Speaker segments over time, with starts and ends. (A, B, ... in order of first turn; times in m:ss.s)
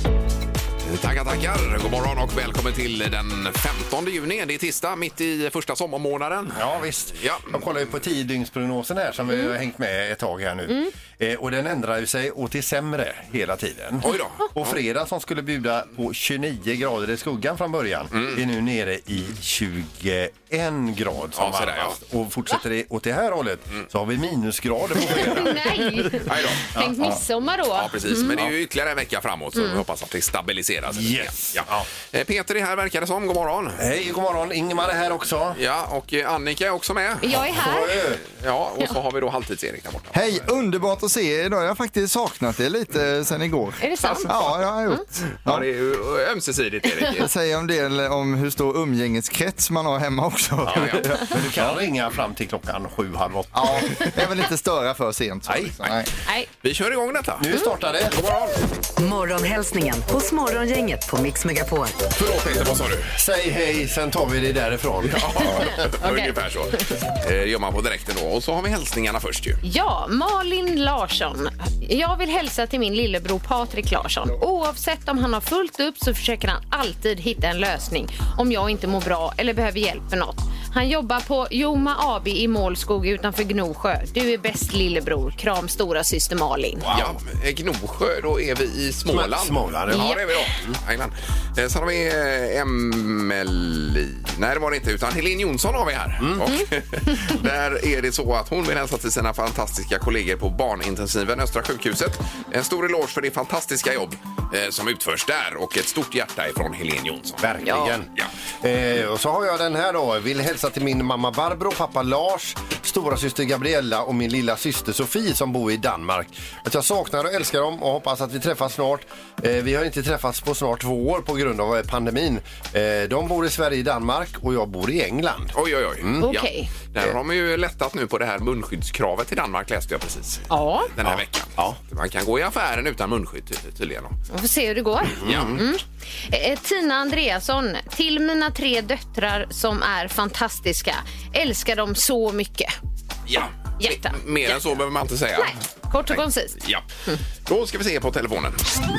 0:00.8-0:06.6 A
0:06.5-0:25.7 B
0:07.1-0:07.5 A
0:14.0-0:14.8 A
0:18.1-0:18.4 A
0:21.4-0:22.0 A
0:25.0-0:28.4 C
0:26.2-0:26.7 A
0:26.7-0:27.2 B
0:27.7-0:33.8 A
0:29.6-0:29.8 C
0:30.9-0:31.9 B
0:33.8-0:35.6 B
0:35.5-0:37.4 A
0:37.2-0:38.0 C
0:37.3-0:38.2 B
0:38.2-0:40.5 A
0:40.1-0:45.7 D
0:43.8-0:44.3 C
0:44.0-0:44.7 A
0:45.4-0:47.3 A
0:47.2-0:51.8 D
0:50.6-0:54.1 B
0:53.5-0:56.1 D
0:56.6-0:58.6 A
0:57.4-0:58.2 B
0:59.0-1:02.0 E
1:02.1-1:03.1 A
1:03.2-1:05.8 B
1:05.0-1:09.6 A
1:05.8-1:06.8 C
1:09.6-1:26.8 C
1:26.8-1:27.2 B
1:26.9-1:47.4 A
1:29.1-1:30.8 B
1:29.9-1:30.2 C
1:36.2-1:36.5 B
1:36.5-1:37.3 C
1:47.4-2:06.3 B
1:47.6-1:48.0 C
2:05.5-2:14.2 A
2:06.2-2:06.7 C
2:10.5-2:10.9 C
2:11.0-2:11.8 B
2:14.3-2:22.7 C
2:15.2-2:15.6 B
2:15.2-2:15.6 A
2:23.3-2:25.5 A
2:23.8-2:24.6 C
2:25.4-2:27.2 C
2:26.1-2:26.8 A
2:27.5-2:28.6 A